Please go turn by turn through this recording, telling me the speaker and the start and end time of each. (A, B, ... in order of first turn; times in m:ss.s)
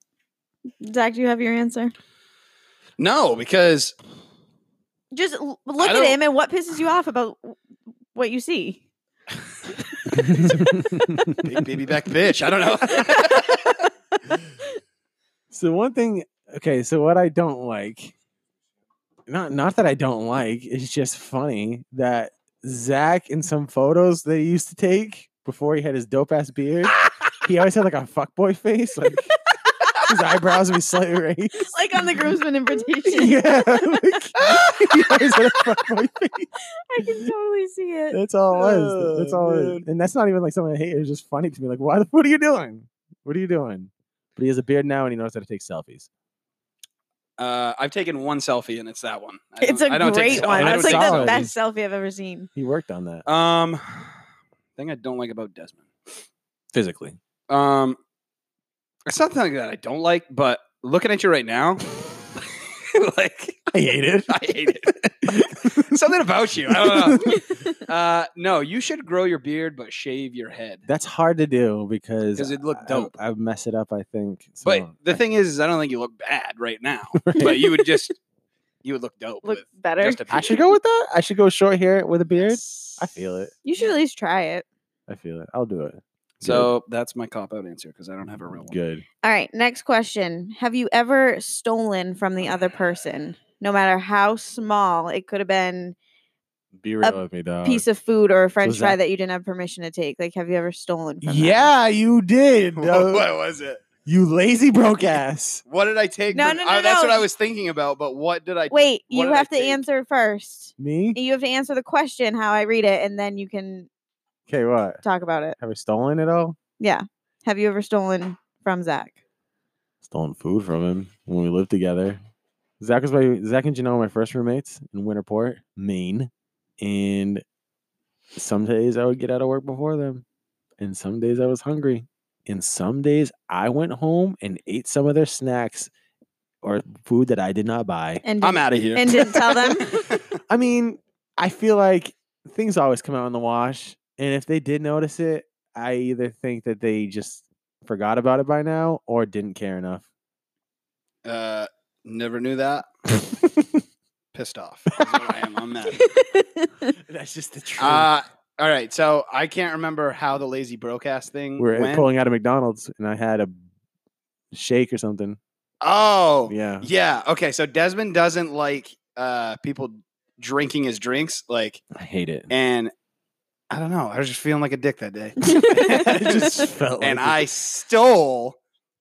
0:00.8-0:01.9 A
0:03.0-0:04.0 B
0:05.1-0:07.6 A
0:05.8-0:06.2 B
0:08.2-0:08.8 A
0:09.9-0:10.6 A
0:10.1-0:11.4 C
0:10.4-0:10.8 B
0:11.3-0:13.9 B
0:12.8-0:13.7 A
0:15.5-0:18.1 C
0:19.3-0:29.3 C
0:30.0-0:31.8 C
0:31.6-0:34.4 A
0:33.0-0:36.5 C
0:36.8-0:38.2 A
0:38.1-0:46.1 C
0:38.5-0:39.8 B
0:47.4-0:51.5 B
0:49.6-0:52.5 A
0:50.1-0:51.5 C
0:52.6-0:53.3 C
0:53.3-0:54.2 B
0:54.8-0:55.9 B
0:56.7-0:57.2 C
0:57.5-0:58.0 B
0:59.1-1:01.8 B
1:02.4-1:03.7 B
1:03.7-1:06.0 C
1:04.3-1:10.8 B
1:06.7-1:07.4 C
1:10.9-1:15.0 C
1:12.4-1:13.1 B
1:14.6-1:18.2 B
1:17.2-1:18.0 C
1:18.8-1:20.6 B
1:19.4-1:20.5 A
1:20.3-1:23.5 C
1:22.4-1:23.2 B
1:23.6-1:24.7 A
1:25.1-1:26.7 C
1:26.4-1:28.8 B
1:28.6-1:29.0 C
1:29.2-1:36.0 A
1:36.8-1:37.8 C
1:37.0-1:41.7 A
1:38.6-1:39.0 C
1:41.2-1:43.3 C
1:42.8-1:43.8 B
1:44.0-1:45.6 C
1:45.7-1:49.8 B
1:46.3-1:47.3 A
1:48.7-1:53.9 A
1:50.8-1:51.2 C
1:54.5-1:55.0 C
1:55.0-1:55.6 A
1:55.6-1:56.6 C
1:56.8-1:59.2 A
2:00.0-2:02.2 C
2:02.8-2:07.4 C
2:08.4-2:10.2 C
2:10.8-2:15.9 C
2:16.6-2:18.2 C
2:18.2-2:20.1 A
2:18.4-2:20.3 B
2:20.5-2:30.1 C
2:31.2-2:32.9 B
2:33.1-2:33.8 C
2:34.3-2:36.1 B
2:35.9-2:36.9 A
2:37.1-2:38.1 C
2:37.8-2:42.1 B
2:41.6-2:43.6 C
2:44.5-2:45.4 C
2:45.8-2:51.8 B
2:46.5-2:46.9 C
2:51.9-2:52.5 C
2:52.5-2:52.9 B
2:53.7-2:58.6 B
2:55.4-2:56.3 A
2:55.5-2:57.5 C